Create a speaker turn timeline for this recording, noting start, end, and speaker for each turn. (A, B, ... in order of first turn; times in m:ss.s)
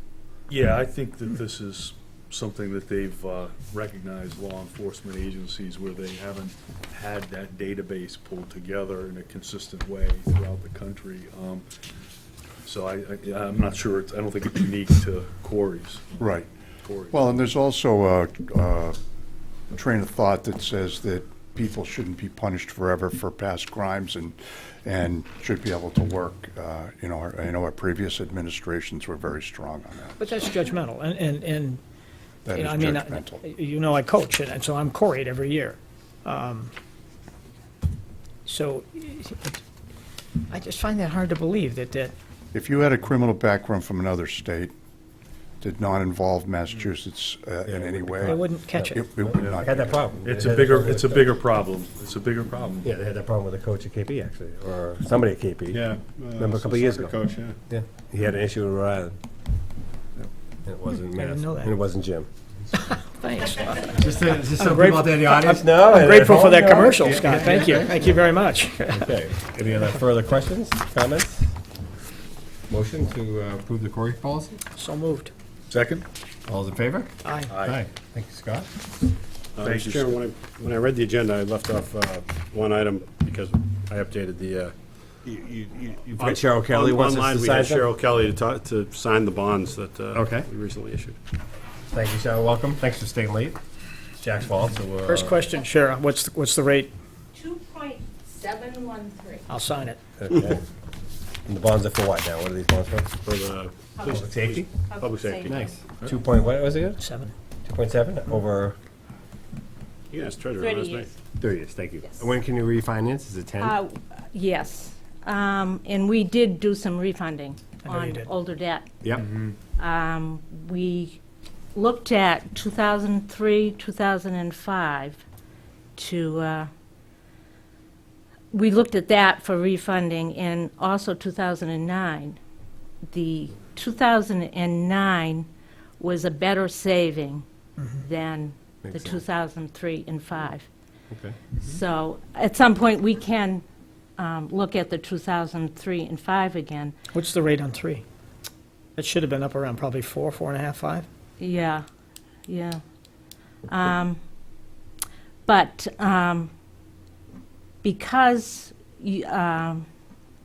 0:00.5-0:11.6 A
0:12.6-0:16.3 A
0:16.2-0:16.5 B
0:17.1-0:19.0 B
0:19.7-0:30.4 B
0:30.2-0:31.8 C
0:32.4-0:33.4 B
0:32.5-0:36.7 C
0:38.4-0:39.6 C
0:40.5-0:42.1 C
0:42.5-0:44.7 B
0:45.6-0:50.0 B
0:47.6-0:48.4 D
0:48.2-0:49.1 C
0:49.1-0:51.3 D
0:50.2-0:52.8 A
0:52.8-0:59.1 D
0:55.7-0:57.4 E
1:00.6-1:02.3 D
1:01.1-1:01.8 C
1:02.7-1:09.1 C
1:03.9-1:07.9 D
1:08.9-1:11.5 D
1:12.7-1:14.6 D
1:14.8-1:15.3 C
1:15.7-1:16.0 A
1:16.4-1:18.7 D
1:17.2-1:17.6 C
1:19.6-1:31.2 E
1:26.1-1:27.9 D
1:30.1-1:30.5 D
1:31.9-1:33.6 D
1:34.2-1:35.4 D
1:35.0-1:36.9 C
1:37.3-1:39.4 F
1:39.5-1:40.0 C
1:40.2-1:40.6 D
1:41.4-1:43.2 D
1:43.2-1:45.6 E
1:44.0-1:44.2 F
1:44.1-1:44.7 D
1:44.9-1:45.8 F
1:45.4-1:47.0 D
1:47.0-1:47.3 C
1:47.6-1:48.8 D
1:50.1-1:51.1 E
1:50.6-1:51.1 F
1:51.4-1:53.8 D
1:53.6-1:58.8 F
1:57.8-1:58.3 C
1:59.0-1:59.4 D
1:59.8-2:01.2 F
2:01.7-2:05.2 F
2:06.0-2:06.7 F
2:08.5-2:12.4 F
2:13.1-2:15.5 F
2:16.0-2:20.7 F
2:18.8-2:19.2 D
2:21.1-2:21.4 D
2:21.6-2:23.6 F
2:24.2-2:26.9 F
2:27.1-2:28.0 C
2:29.0-2:31.0 C
2:31.4-2:31.8 F
2:32.5-2:32.8 F
2:33.7-2:34.2 F
2:35.4-2:36.5 F
2:37.8-2:39.9 F